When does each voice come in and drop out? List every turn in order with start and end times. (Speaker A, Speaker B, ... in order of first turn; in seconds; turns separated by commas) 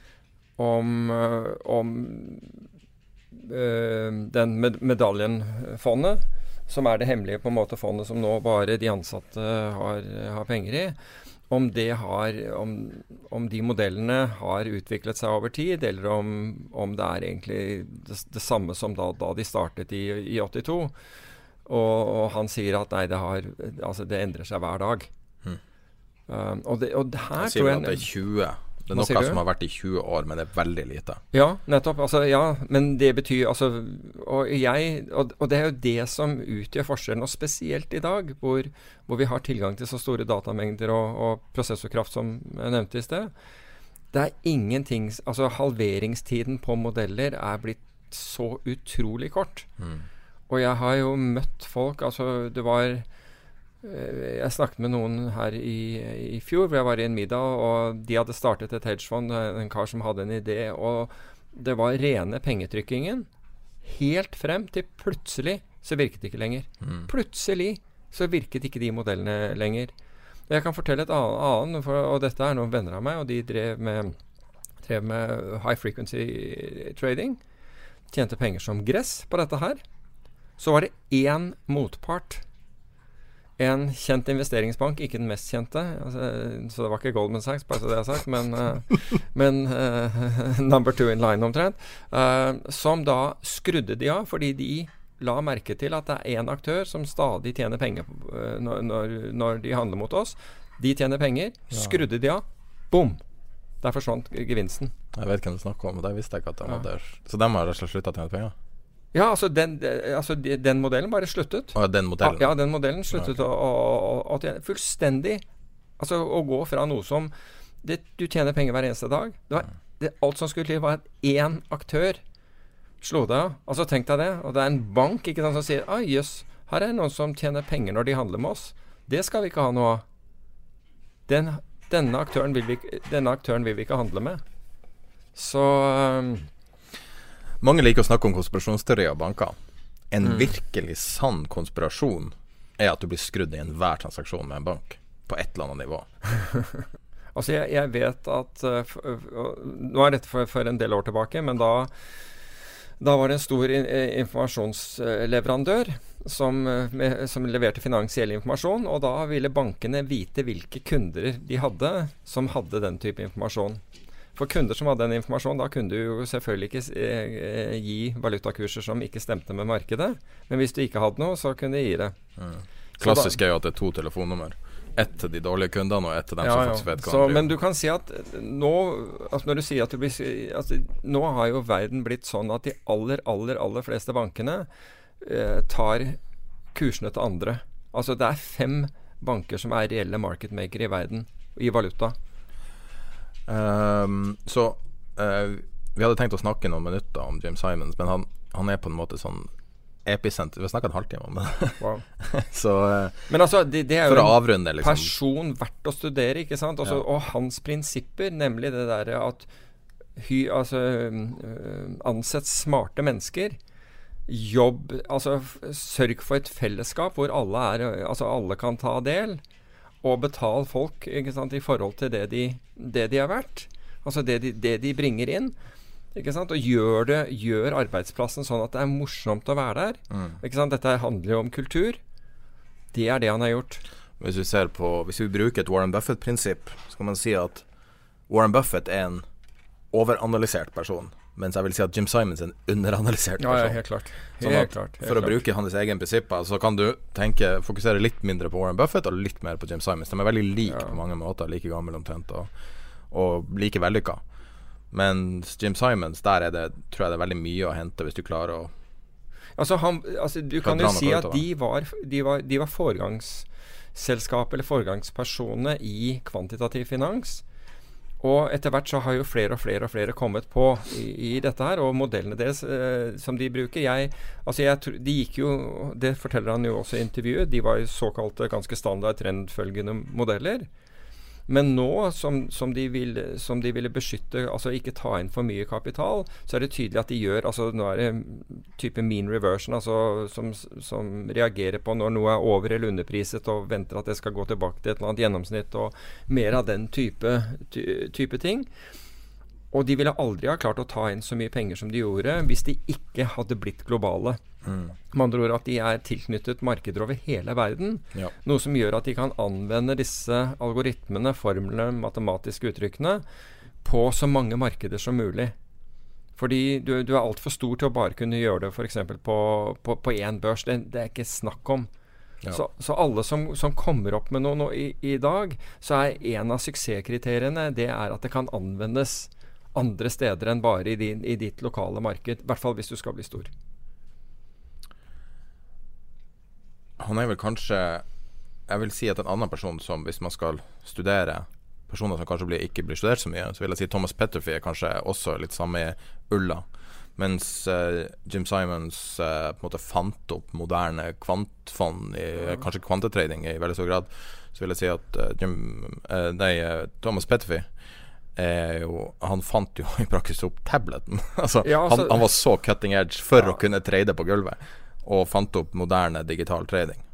Speaker A: 0.6-2.6, Speaker A: 3.3-10.9, Speaker A: 11.5-20.9, Speaker A: 21.6-25.1, Speaker A: 26.3-28.1, Speaker B: 27.4-31.2, Speaker A: 28.9-29.4, Speaker A: 31.3-43.3, Speaker A: 44.1-49.7, Speaker B: 49.8-50.0, Speaker A: 50.5-53.0, Speaker A: 53.8-63.3, Speaker A: 63.8-69.9, Speaker B: 66.8-67.1, Speaker A: 70.5-74.2, Speaker A: 74.8-77.4, Speaker A: 78.1-79.8, Speaker A: 80.6-82.4, Speaker A: 83.6-103.2, Speaker B: 101.7-102.0, Speaker A: 103.8-104.9, Speaker B: 105.1-108.5, Speaker A: 109.1-115.4, Speaker B: 111.7-112.5, Speaker B: 113.1-113.4, Speaker A: 116.0-122.2, Speaker A: 123.0-130.0, Speaker A: 131.3-134.4, Speaker A: 135.3-136.5, Speaker B: 137.6-139.6, Speaker B: 140.1-146.1, Speaker A: 140.2-140.5, Speaker A: 146.5-146.8, Speaker A: 147.3-151.9, Speaker A: 153.0-163.8, Speaker A: 164.3-172.2, Speaker B: 172.4-177.5, Speaker A: 173.0-173.4, Speaker A: 176.4-184.7, Speaker A: 185.2-186.2, Speaker A: 186.7-192.2, Speaker B: 193.5-199.5, Speaker B: 200.0-203.3, Speaker A: 201.8-202.0, Speaker A: 203.3-209.5, Speaker B: 204.0-205.1, Speaker A: 210.2-213.6, Speaker A: 214.3-219.4, Speaker A: 220.0-225.5, Speaker A: 226.1-232.0, Speaker B: 230.1-230.4, Speaker A: 232.9-233.8, Speaker B: 234.2-237.6, Speaker B: 238.3-239.2, Speaker B: 239.9-243.8, Speaker A: 243.4-245.4, Speaker B: 244.4-252.5, Speaker A: 250.7-251.0, Speaker B: 253.1-254.2, Speaker B: 254.9-258.7, Speaker A: 259.6-267.4, Speaker B: 260.6-261.4, Speaker A: 268.2-280.7, Speaker A: 281.5-298.7, Speaker A: 299.7-304.4, Speaker B: 304.6-304.9, Speaker A: 305.1-313.2, Speaker A: 313.8-315.5, Speaker A: 316.4-321.9, Speaker A: 322.5-333.5, Speaker B: 337.0-338.0, Speaker B: 338.7-357.7, Speaker B: 358.3-367.0, Speaker A: 361.6-362.2